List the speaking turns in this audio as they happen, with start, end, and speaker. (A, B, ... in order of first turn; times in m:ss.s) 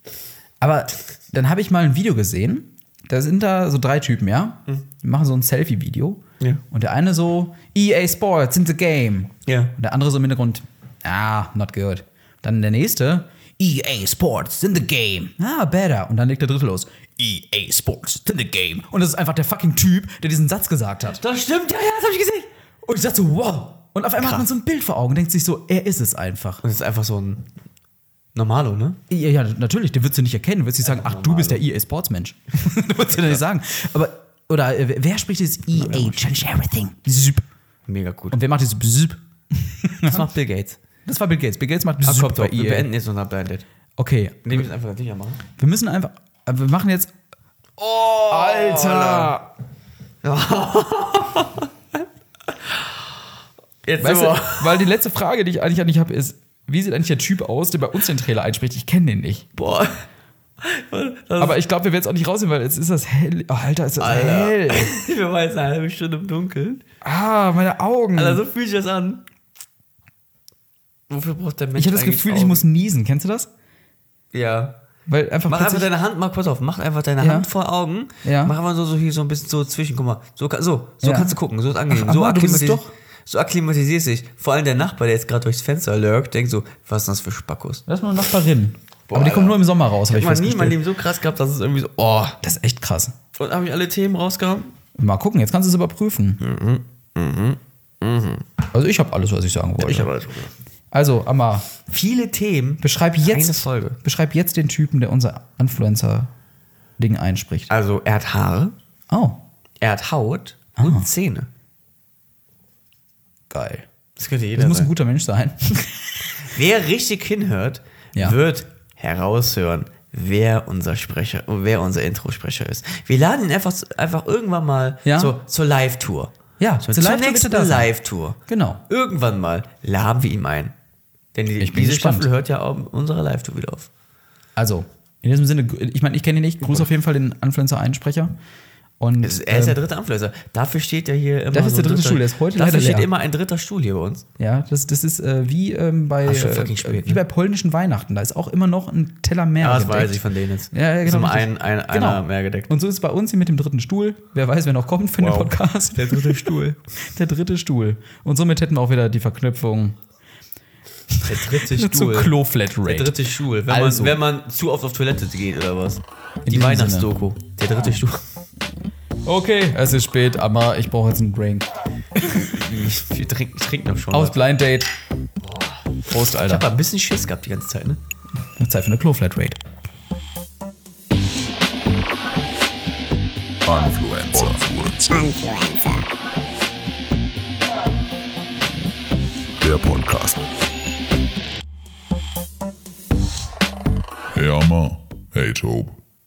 0:00.6-0:21.2 A
0:09.4-0:09.7 B
0:21.2-0:22.5 B
0:22.8-0:26.6 A
0:24.2-0:24.5 B
0:26.6-0:27.5 B
0:28.3-0:29.0 B
0:29.1-0:37.4 A
0:30.8-0:31.6 B
0:33.1-0:33.4 B
0:35.8-0:36.2 B
0:37.9-0:38.4 B
0:38.3-0:40.2 A
0:40.0-0:40.8 B
0:41.0-0:42.9 A
0:42.0-0:43.6 B
0:44.0-0:44.6 A
0:44.4-0:45.4 B
0:45.6-0:47.1 A
0:47.8-0:49.4 B
0:48.3-0:49.4 A
0:50.2-0:52.0 B
0:53.8-0:54.9 B
0:54.0-0:59.5 A
0:59.6-1:00.0 B
1:00.6-1:01.6 B
1:01.4-1:05.0 A
1:04.0-1:06.8 B
1:07.0-1:08.4 A
1:08.1-1:09.2 B
1:11.1-1:12.6 B
1:11.8-1:13.5 A
1:14.3-1:14.8 B
1:15.1-1:15.9 A
1:15.5-1:27.8 B
1:17.2-1:17.5 A
1:18.2-1:18.5 A
1:21.0-1:21.4 A
1:21.9-1:22.9 A
1:27.9-1:30.8 A
1:29.1-1:32.4 B
1:32.4-1:33.1 A
1:33.3-1:34.7 B
1:35.0-1:36.4 A
1:36.4-1:38.4 B
1:38.7-1:40.1 A
1:39.8-1:40.5 B
1:40.9-1:41.7 A
1:41.9-1:44.0 B
1:42.8-1:46.3 A
1:47.0-1:47.7 A
1:47.7-1:48.7 B
1:49.1-1:49.4 A
1:49.8-1:51.5 B
1:50.8-1:51.0 A
1:53.5-1:53.9 A
1:54.2-1:54.9 B
1:54.5-1:56.4 A
1:56.4-2:10.7 B
2:05.0-2:05.4 A
2:06.6-2:07.9 A
2:08.5-2:08.8 A
2:11.3-2:13.9 B
2:11.6-2:12.3 A
2:14.6-2:18.3 A
2:16.6-2:16.9 B
2:19.0-2:19.8 A
2:19.2-2:24.2 B
2:21.5-2:23.1 A
2:24.4-2:40.0 A
2:26.2-2:27.2 B
2:29.6-2:32.7 B
2:35.2-2:36.8 B
2:41.2-2:44.2 A
2:41.2-2:48.2 B
2:46.4-2:47.1 A
2:49.2-2:51.7 A
2:52.2-2:54.4 B
2:54.1-2:54.9 A
2:55.4-2:58.0 B
2:56.1-2:56.6 A
2:58.6-2:59.6 A
3:03.6-3:06.0 C
3:09.6-3:10.4 C
3:14.3-3:16.0 C